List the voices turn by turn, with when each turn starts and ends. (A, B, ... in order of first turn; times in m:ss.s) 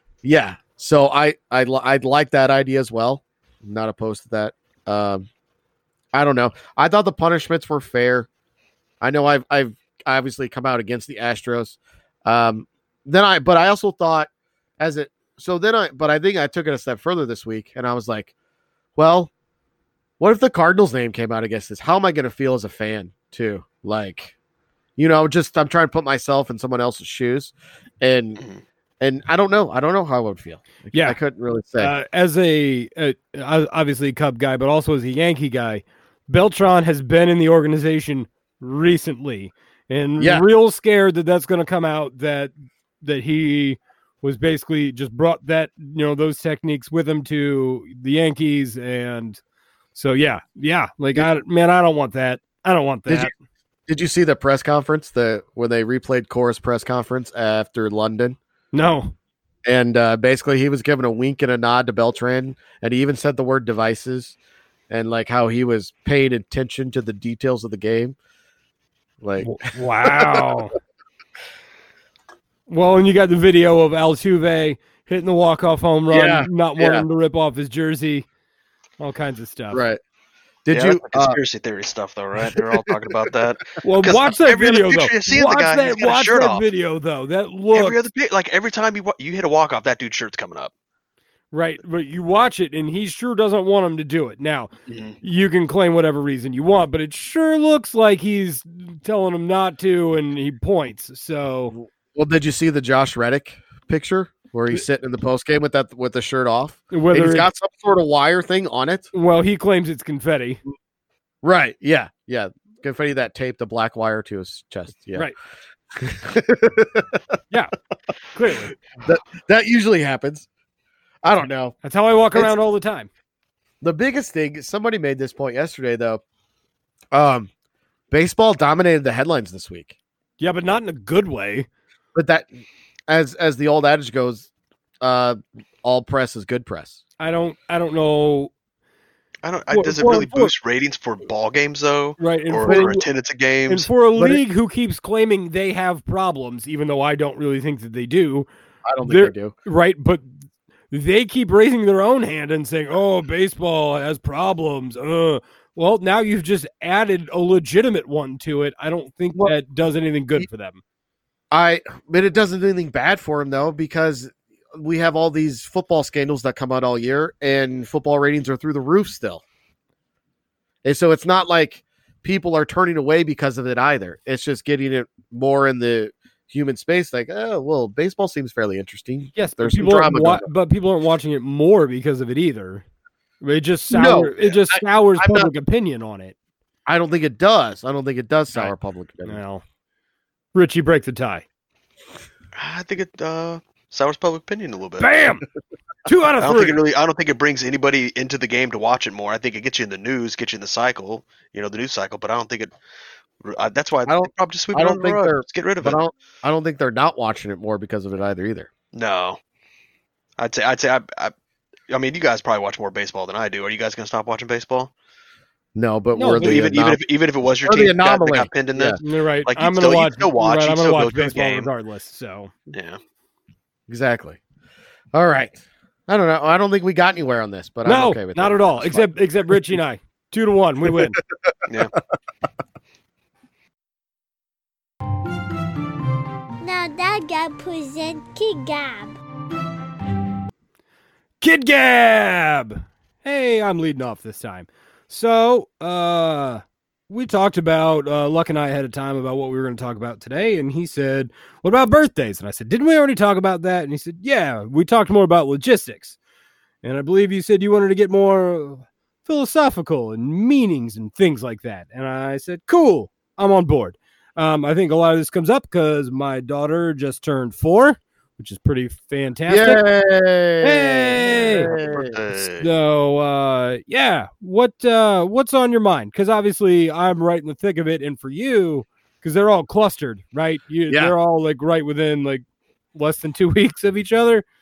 0:00.2-0:05.3 A
0:06.1-0:08.3 A
0:09.0-0:18.3 A
0:19.0-0:19.3 A
0:20.2-0:24.3 A
0:25.0-0:28.4 A
0:29.0-0:31.9 A
0:30.9-0:31.2 B
0:31.8-0:49.4 B
0:40.2-0:40.4 A
0:49.9-0:53.3 B
0:53.9-0:58.4 A
0:58.7-0:59.1 B
0:59.6-1:04.3 A
1:04.9-1:08.2 A
1:09.2-1:10.4 A
1:09.4-1:10.7 B
1:12.7-1:18.2 B
1:16.1-1:17.0 A
1:19.0-1:19.8 B
1:19.7-1:20.0 A
1:20.6-1:21.4 A
1:20.7-1:26.6 C
1:22.5-1:22.9 A
1:23.8-1:28.0 B
1:27.7-1:30.7 C
1:31.5-1:34.7 B
1:34.9-1:35.2 C
1:35.2-1:41.7 B
1:41.7-1:49.1 A
1:46.9-1:47.5 B
1:49.1-1:50.6 B
1:51.4-1:55.3 A
1:55.9-1:57.2 A
1:58.3-1:58.7 B
1:59.0-2:00.5 A
2:01.2-2:01.8 A
2:01.8-2:03.1 B
2:03.8-2:06.2 A
2:07.1-2:07.5 A
2:08.1-2:09.9 A
2:10.4-2:11.7 B
2:12.1-2:12.5 A
2:13.1-2:14.5 A
2:15.0-2:17.0 A
2:17.2-2:18.5 B
2:19.4-2:23.9 C
2:19.7-2:20.5 B
2:22.2-2:23.0 B
2:22.7-2:22.9 A
2:23.7-2:28.5 B
2:24.2-2:24.4 A
2:28.8-2:29.5 A
2:29.0-2:40.8 B
2:41.5-2:49.4 A
2:50.8-3:00.5 A
2:59.3-3:02.8 B
3:03.4-3:06.3 B
3:03.9-3:05.5 A
3:06.9-3:09.4 A
3:09.2-3:09.6 B
3:10.5-3:11.4 B
3:12.6-3:15.1 C
3:15.0-3:15.4 B
3:16.0-3:16.8 B
3:16.4-3:22.7 C
3:23.4-3:26.0 C
3:24.1-3:28.7 A
3:28.9-3:29.4 C
3:30.4-3:31.3 C
3:31.9-3:34.9 C
3:35.7-3:37.0 A
3:36.1-3:36.6 B
3:36.4-3:41.7 C
3:37.6-3:39.0 A
3:39.0-3:42.5 B
3:42.7-3:43.0 C
3:43.9-3:44.4 A
3:45.1-3:49.1 A
3:47.8-3:51.2 B
3:51.7-3:51.9 C
3:56.6-3:59.2 D
4:01.4-4:16.2 B
4:16.8-4:29.8 B
4:29.5-4:32.2 A
4:30.6-4:31.7 B
4:31.3-4:32.7 C
4:32.6-4:44.4 B
4:40.9-4:41.1 A